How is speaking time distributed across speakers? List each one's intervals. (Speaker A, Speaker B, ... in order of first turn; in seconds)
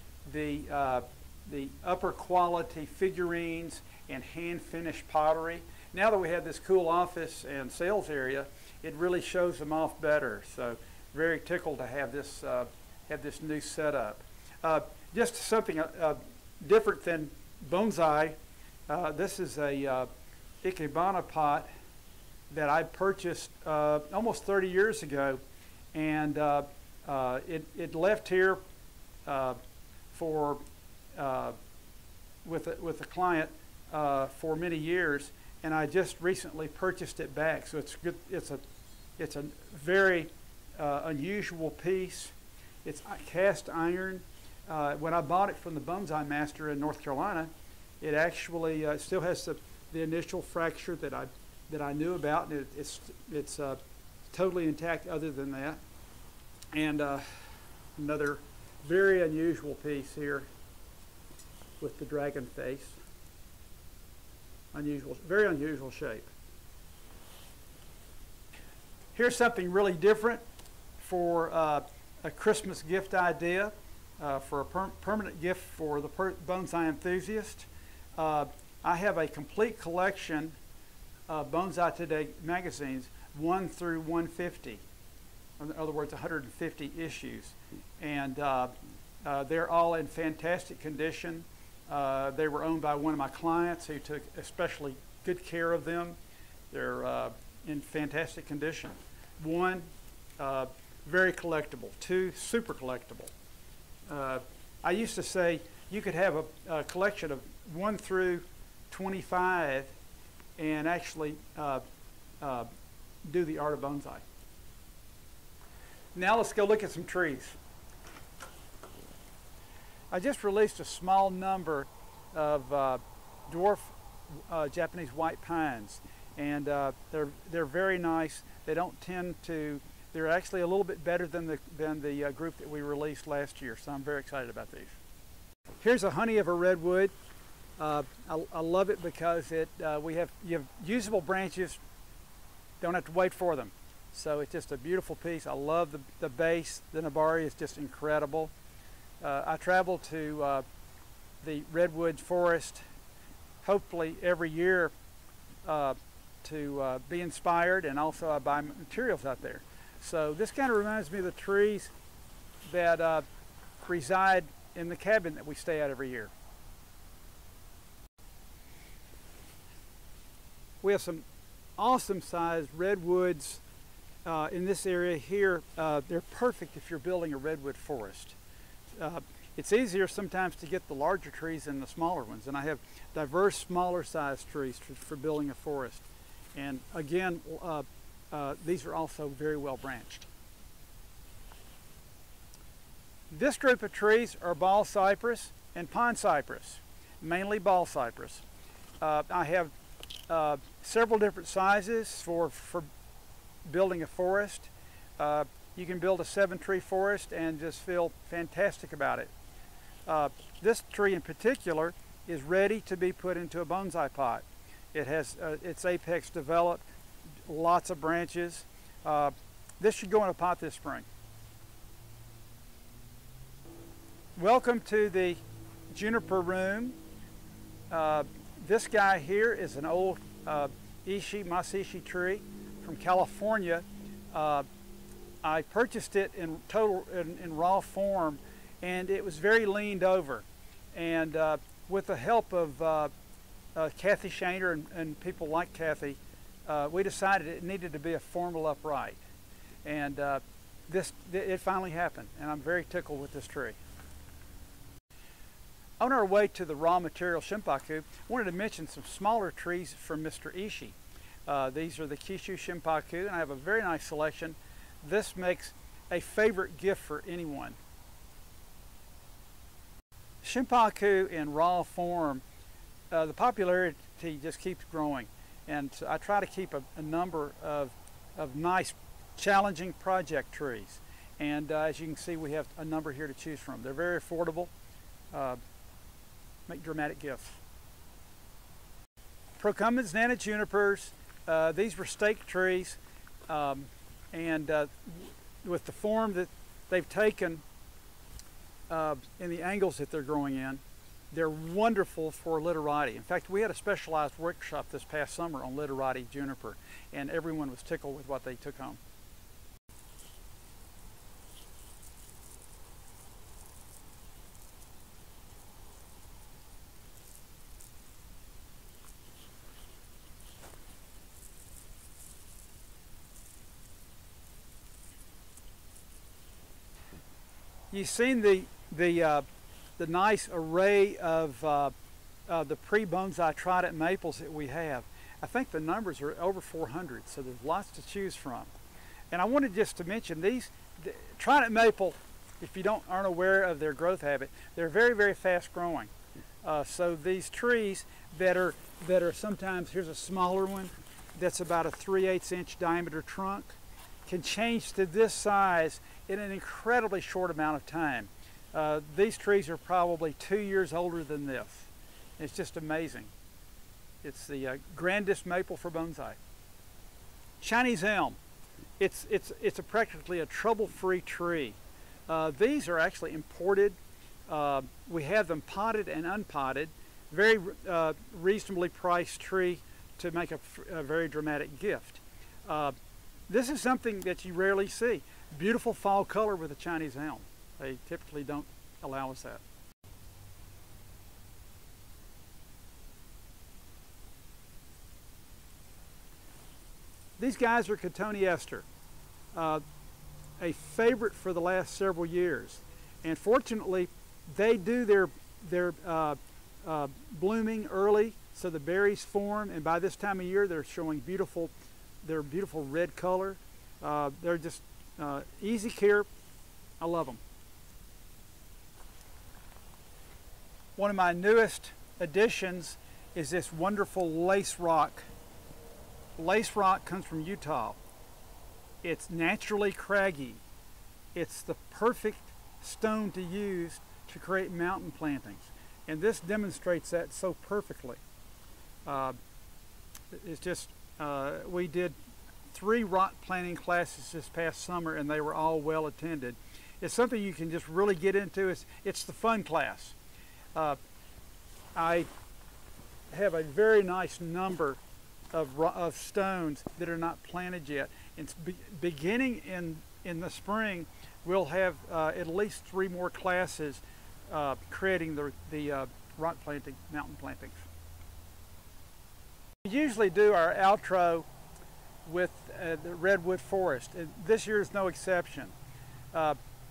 Speaker A: 0.2-18.4, 18.9-20.1, 20.6-21.7, 22.5-25.4, 25.9-28.6, 29.3-29.6, 30.1-30.6, 31.1-31.6, 32.4-38.6, 39.2-47.5, 48.0-53.8, 54.3-55.8, 56.7-57.4, 58.0-60.5, 61.8-63.0, 64.7-66.3, 69.1-70.4, 71.0-80.6, 81.3-84.8, 85.6-96.2, 96.7-103.3, 104.1-109.9, 110.6-111.8, 112.4-112.7, 113.2-114.2, 116.2-117.6, 120.1-124.0, 124.5-135.0, 135.8-137.1, 137.8-141.8, 142.8-148.5, 149.2-150.7, 151.4-152.8, 153.6-154.9, 155.7-161.9, 162.7-163.2, 163.9-166.3, 170.8-171.2, 171.8-173.6, 174.2-178.4, 179.0-190.3, 193.3-198.4, 199.0-199.7, 200.3-202.9, 203.7-209.3, 210.1-216.8, 217.5-221.1, 224.4-227.0, 227.9-234.7, 235.4-243.1, 243.8-249.2, 249.8-253.8, 256.0-267.8, 270.4-272.4, 273.1-284.7, 285.3-285.6, 286.7-287.6, 289.6-297.6, 298.9-309.0, 327.9-329.5, 330.0-331.9, 332.5-338.7, 339.3-346.1, 346.6-363.3, 364.2-366.4, 367.6-368.4, 369.0-374.0, 374.5-383.0, 383.5-389.6, 397.4-398.9, 399.5-399.8, 400.6-411.7, 412.2-416.3, 417.0-417.4, 421.0-425.3, 426.4-428.0, 429.0-430.6, 431.3-438.2, 439.1-439.4, 440.3-442.2, 442.7-450.1, 451.9-452.3, 453.3-455.0, 455.5-467.9, 469.9-471.5, 472.2-475.8, 476.3-476.6